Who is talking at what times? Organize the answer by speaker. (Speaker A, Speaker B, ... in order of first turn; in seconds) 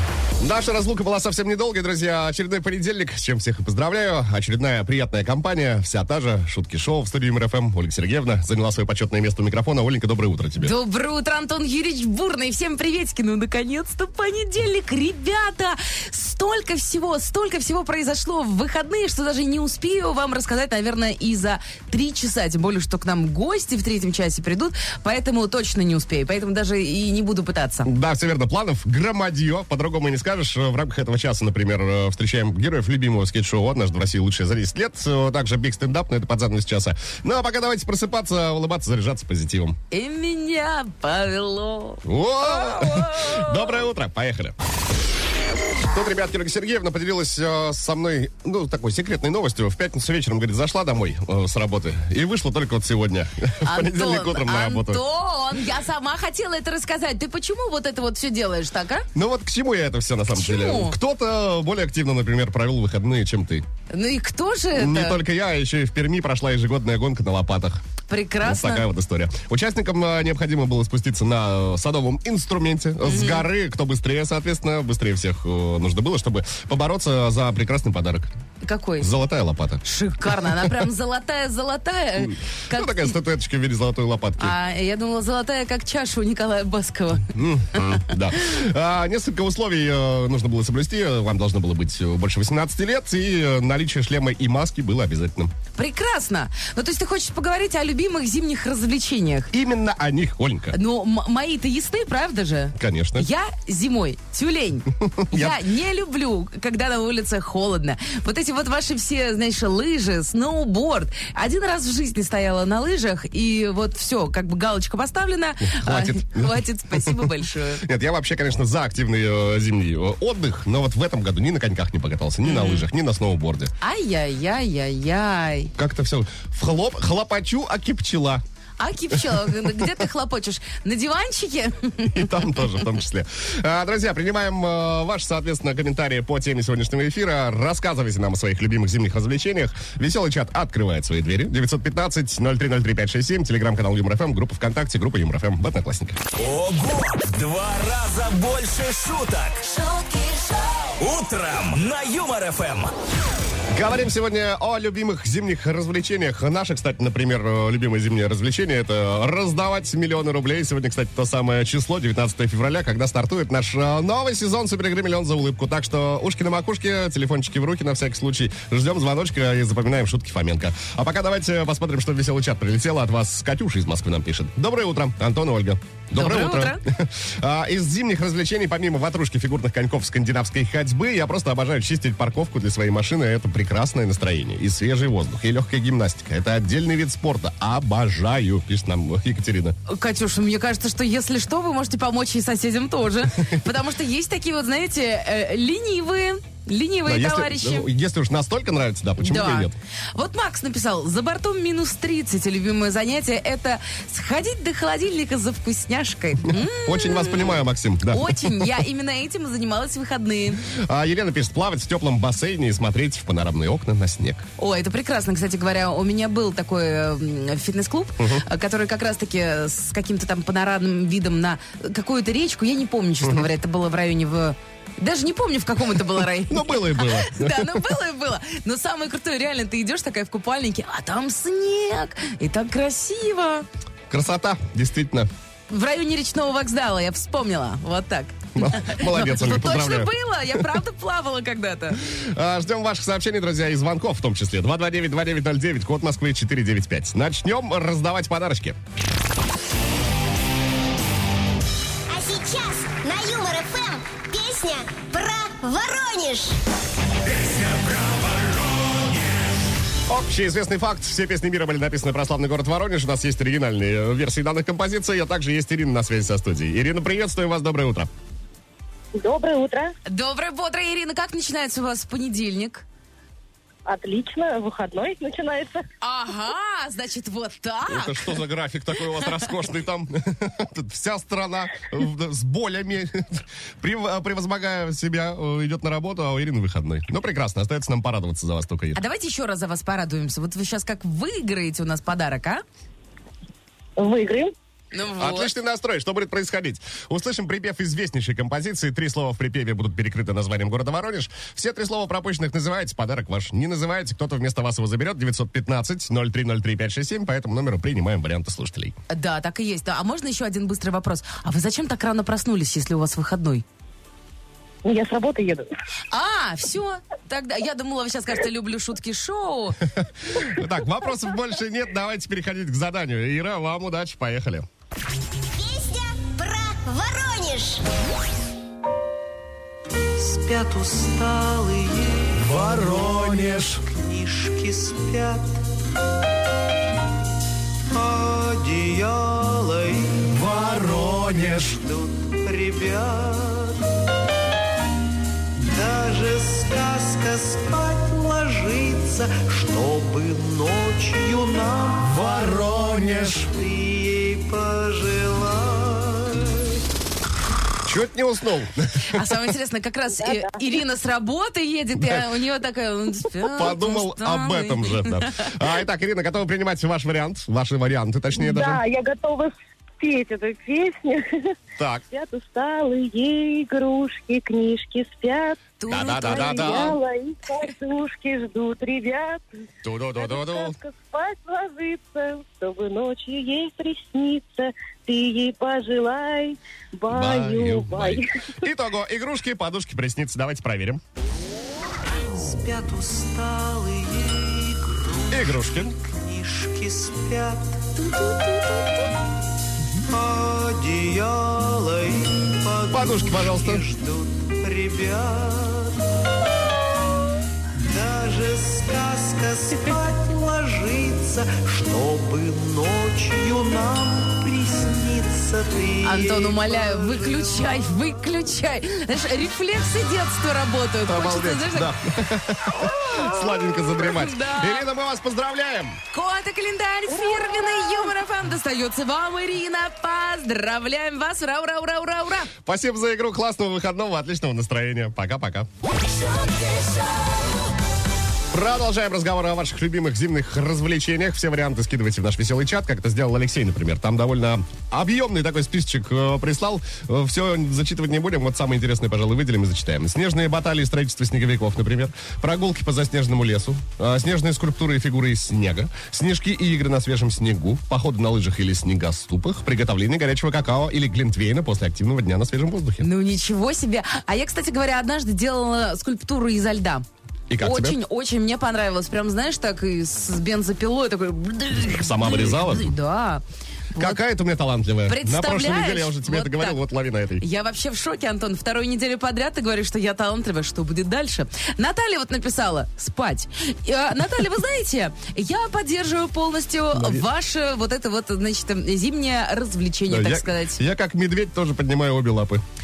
Speaker A: 0.4-10.7, 27.9-39.8, 42.0-44.6, 45.9-55.0, 59.1-63.6, 64.7-67.8, 68.4-78.3, 79.0-79.8, 80.4-80.7, 82.2-84.5, 87.3-95.5, 99.5-100.8, 102.8-103.3, 105.0-105.6, 115.7-117.2, 117.8-123.7, 125.8-128.4, 129.1-129.9, 132.0-146.2, 153.7-189.7, 197.1-199.7, 206.4-208.8, 210.6-214.4, 218.2-218.4, 226.5-227.9, 234.1-235.3, 238.6-240.6, 242.0-248.8, 260.1-268.1, 277.9-289.0, 295.2-308.9, 320.0-324.7, 357.8-359.3, 362.0-362.2, 363.4-368.8, 371.8-372.0, 375.9-377.0, 379.8-380.8, 387.1-391.0, 395.3-395.9, 402.9-403.8, 421.1-426.0, 432.6-435.7, 438.5-463.1, 467.5-468.0, 471.8-472.9, 473.9-477.4, 486.9-487.2, 490.1-492.6
Speaker B: 10.6-27.9, 39.9-43.8, 53.6-59.1, 60.3-61.0, 63.9-65.2, 68.1-68.9, 73.0-73.5, 78.6-79.1, 79.8-83.1, 84.4-88.0, 95.8-99.5, 100.7-117.8, 122.4-122.8, 123.8-125.7, 128.8-132.7, 176.1-176.8, 189.9-197.9, 199.2-210.6, 214.6-233.7, 235.7-242.0, 270.1-272.8, 276.0-278.4, 288.9-292.6, 294.9-295.5, 309.1-313.6, 316.1-319.8, 359.0-365.5, 375.8-377.0, 397.9-399.1, 416.0-421.9, 422.7-424.9, 426.1-432.5, 463.0-467.0, 467.6-474.2, 475.1-476.8, 477.4-490.8
Speaker C: 146.3-149.8, 151.0-152.9
Speaker D: 252.1-256.5, 325.5-327.8
Speaker E: 269.1-269.9, 273.9-275.8, 294.0-294.5, 314.8-315.7, 360.2-360.6, 368.3-371.2, 372.1-379.4, 380.1-388.6, 427.1-427.6
Speaker F: 330.1-335.6, 337.9-343.9, 345.6-356.8, 392.1-397.9, 400.1-406.0, 407.8-417.8